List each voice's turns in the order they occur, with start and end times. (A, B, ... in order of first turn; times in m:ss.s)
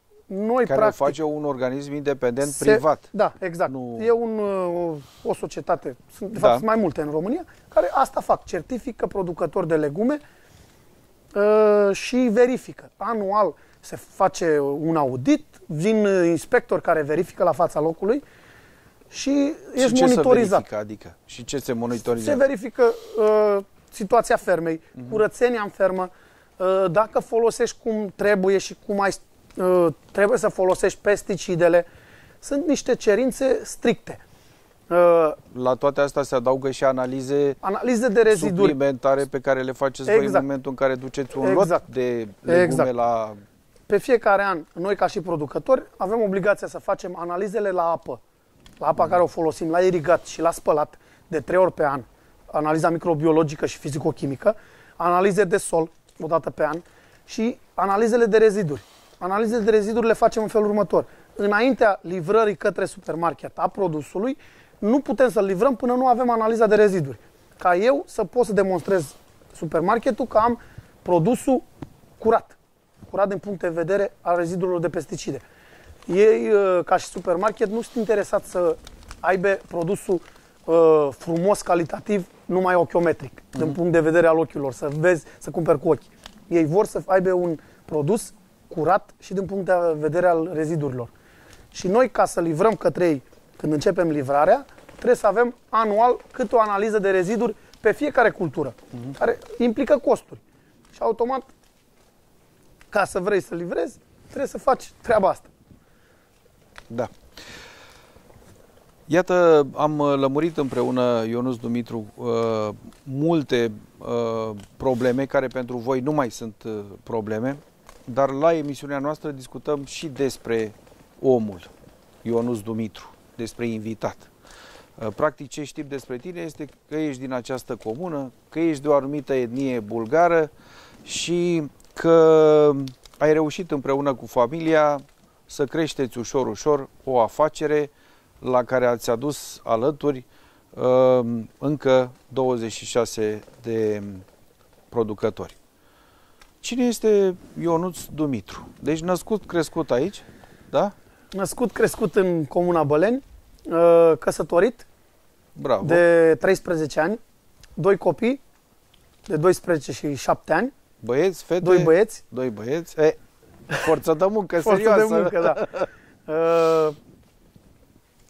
0:00.3-0:01.2 A
0:00.7-0:03.0 B
0:02.4-0:10.2 A
0:03.7-0:04.1 B
0:06.4-0:06.6 B
0:11.3-0:18.2 A
0:19.1-0:20.6 A
0:19.8-0:22.4 B
0:22.2-0:31.8 A
0:32.4-0:34.2 A
0:34.9-0:35.4 A
0:35.5-0:37.6 B
0:37.6-0:38.8 A
0:38.3-0:43.4 B
0:40.0-0:40.4 A
0:41.4-0:41.8 A
0:42.5-0:42.9 A
0:43.9-0:48.2 A
0:48.8-1:11.6 A
1:12.2-1:12.6 A
1:13.1-1:15.4 A
1:16.1-1:31.1 A
1:31.7-1:40.4 A
1:40.9-1:41.5 A
1:42.9-1:45.5 A
1:49.1-2:01.7 B
2:02.2-2:04.3 B
2:05.0-2:10.5 B
2:11.0-2:24.2 B
2:24.9-2:25.6 B
2:26.6-2:30.9 B
2:31.3-2:34.8 A
2:35.5-2:36.0 B
2:35.8-2:37.2 A
2:37.8-2:38.4 A
2:39.2-2:40.7 A
2:41.0-2:43.2 B
2:41.6-2:42.2 A
2:43.7-2:45.8 B
2:44.6-2:45.7 A
2:46.3-2:47.0 A